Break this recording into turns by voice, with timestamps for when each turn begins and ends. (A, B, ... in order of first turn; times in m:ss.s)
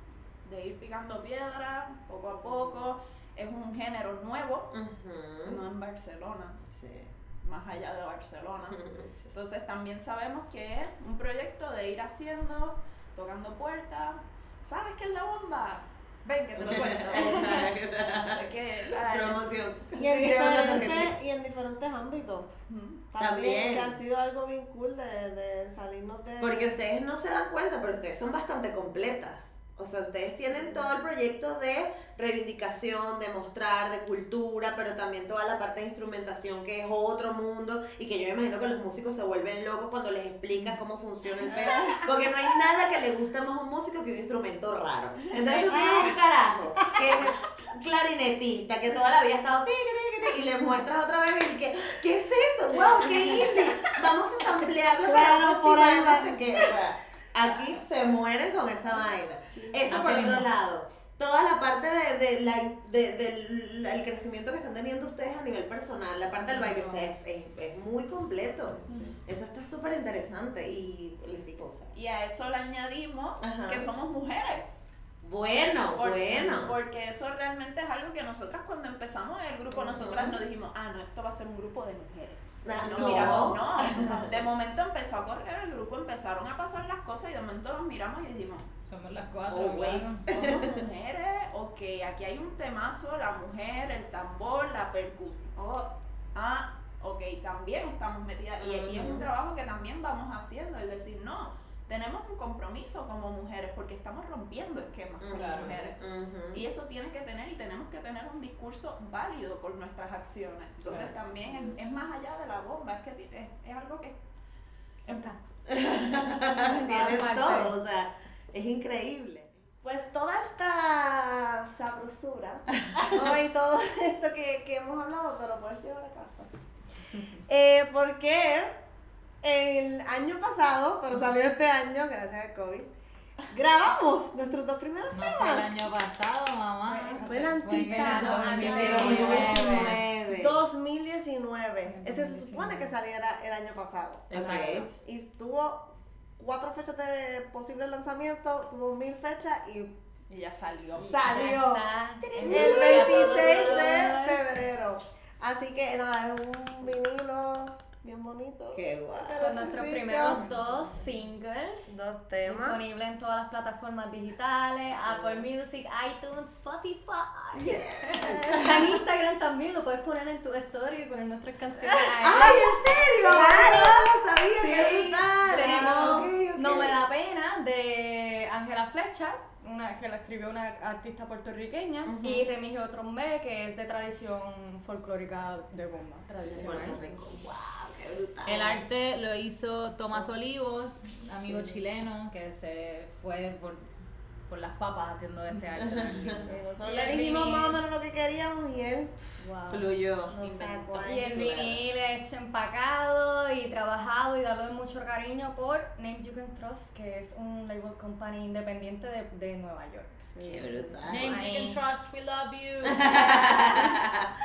0:00.4-0:04.7 A
0:04.7-0:05.6 B
0:05.4-0:06.6 A
0:06.7-0:07.1 B
0:07.4-0:08.8 A
0:08.7-0:09.3 B
0:09.3-0:20.7 A
0:16.6-0:21.1 B
0:20.0-0:22.5 C
0:22.7-0:23.0 A
0:23.1-0:26.8 C
0:23.2-0:23.9 B
0:26.4-1:11.9 B
0:30.5-0:30.9 C
0:41.5-0:42.0 C
0:45.7-0:46.1 C
0:54.9-0:56.8 C
0:59.6-1:00.1 C
0:59.9-1:00.5 D
1:11.9-1:14.7 A
1:13.4-1:13.8 B
1:15.2-1:16.7 B
1:15.9-1:28.7 A
1:19.7-1:20.4 B
1:22.6-1:24.5 B
1:23.0-1:23.3 D
1:28.8-1:30.3 D
1:29.5-1:30.8 B
1:30.3-1:46.0 A
1:38.6-1:39.3 B
1:45.2-1:46.6 B
1:45.3-1:45.8 D
1:46.5-1:54.2 A
1:50.8-1:51.7 B
1:55.1-1:55.4 E
1:55.7-1:59.5 B
1:56.6-1:57.7 E
1:59.8-2:06.5 C
2:07.2-2:08.8 C
2:09.4-2:12.9 C
2:13.5-2:15.7 C
2:15.1-2:20.0 D
2:16.8-2:20.0 E
2:17.1-2:24.3 C
2:18.4-2:20.5 B
2:21.9-2:22.9 E
2:24.3-2:24.9 D
2:24.3-2:24.9 B
2:24.9-2:30.0 C
2:30.3-2:31.4 A
2:31.0-2:31.8 C
2:31.0-2:34.4 E
2:32.4-2:40.4 C
2:32.4-2:33.4 D
2:32.5-2:33.0 B
2:38.7-2:39.6 B
2:39.4-3:07.1 E
2:40.3-2:40.6 D
2:41.9-2:42.8 C
2:45.0-2:45.5 B
2:47.6-2:48.6 B
2:48.2-2:48.7 C
2:51.9-2:54.1 C
2:52.2-2:57.0 B
2:55.5-2:56.3 C
3:02.0-3:02.5 B
3:06.5-3:07.0 C
3:06.5-3:08.8 B
3:08.4-3:13.8 D
3:11.4-3:11.8 B
3:14.5-3:17.6 D
3:15.8-3:16.4 B
3:16.5-3:19.3 C
3:19.4-3:19.9 E
3:19.7-3:21.8 B
3:20.3-3:21.5 C
3:21.0-3:30.5 E
3:30.3-3:31.0 C
3:30.4-3:31.5 B
3:31.0-3:33.7 D
3:31.1-3:31.8 E
3:32.8-3:34.3 B